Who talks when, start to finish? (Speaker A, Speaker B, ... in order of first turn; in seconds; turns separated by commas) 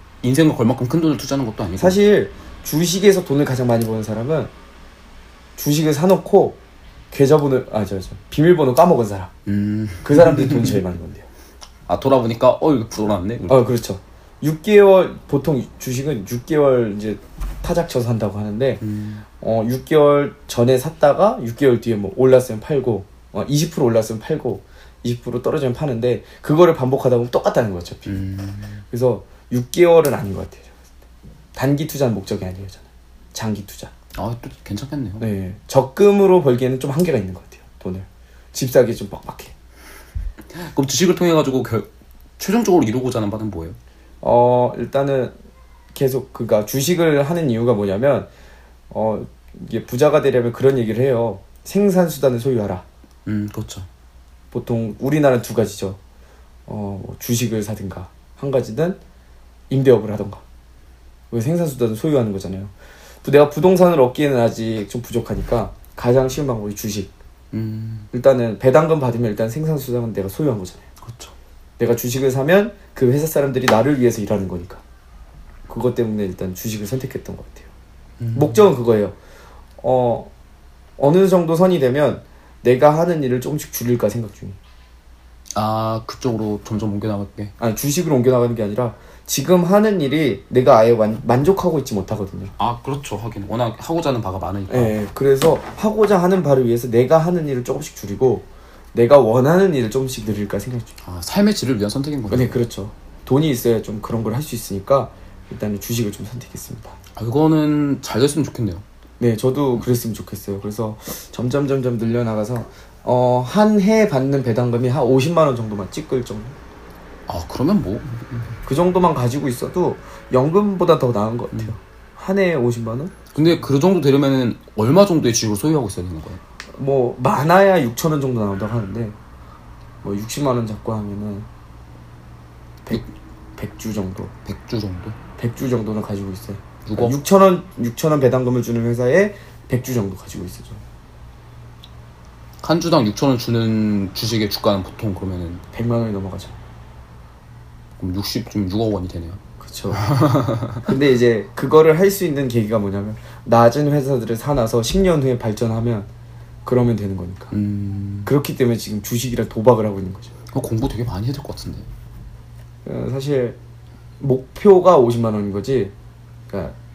Speaker A: 0.2-2.0, Speaker B: 1.8-4.5, Speaker B: 5.6-6.6, Speaker B: 7.1-9.3, Speaker A: 9.5-10.8, Speaker B: 10.0-11.3, Speaker A: 11.9-13.7, Speaker B: 13.5-18.8, Speaker A: 18.8-19.2, Speaker B: 19.4-28.2, Speaker A: 28.1-28.8, Speaker B: 28.9-30.7, Speaker B: 31.6-33.9, Speaker A: 34.1-35.2, Speaker B: 35.2-39.5, Speaker A: 40.5-43.8, Speaker B: 44.2-45.3, Speaker B: 46.0-48.3, Speaker B: 48.9-52.9, Speaker A: 53.3-53.9, Speaker B: 54.5-56.0, Speaker B: 56.7-59.0, Speaker B: 59.7-60.4, Speaker B: 61.3-62.7, Speaker B: 63.2-67.1, Speaker A: 67.5-68.1, Speaker B: 68.1-70.8, Speaker A: 71.0-71.3, Speaker B: 71.8-74.8, Speaker B: 75.7-77.7, Speaker A: 78.2-78.7, Speaker B: 78.3-79.2, Speaker B: 79.8-80.3, Speaker B: 81.0-84.6, Speaker A: 85.5-87.5, Speaker B: 87.6-92.5, Speaker A: 92.6-95.0, Speaker B: 94.7-101.0, Speaker A: 101.0-102.6, Speaker B: 102.3-107.0, Speaker A: 107.2-108.8, Speaker B: 109.2-116.6, Speaker A: 117.3-118.5, Speaker B: 118.7-123.3, Speaker A: 123.3-126.4, Speaker B: 126.8-129.2, Speaker B: 130.0-131.5, Speaker B: 132.9-134.3, Speaker A: 134.4-135.2, Speaker B: 135.4-140.8, Speaker A: 136.8-137.2, Speaker A: 142.6-145.6, Speaker B: 145.7-146.6, Speaker A: 148.0-150.9, Speaker B: 149.6-150.1, Speaker B: 150.8-156.1, Speaker B: 156.7-157.5, Speaker A: 157.5-158.3, Speaker B: 158.2-160.3, Speaker A: 160.5-161.9, Speaker B: 162.8-163.6, Speaker B: 164.2-165.9, Speaker B: 166.5-166.8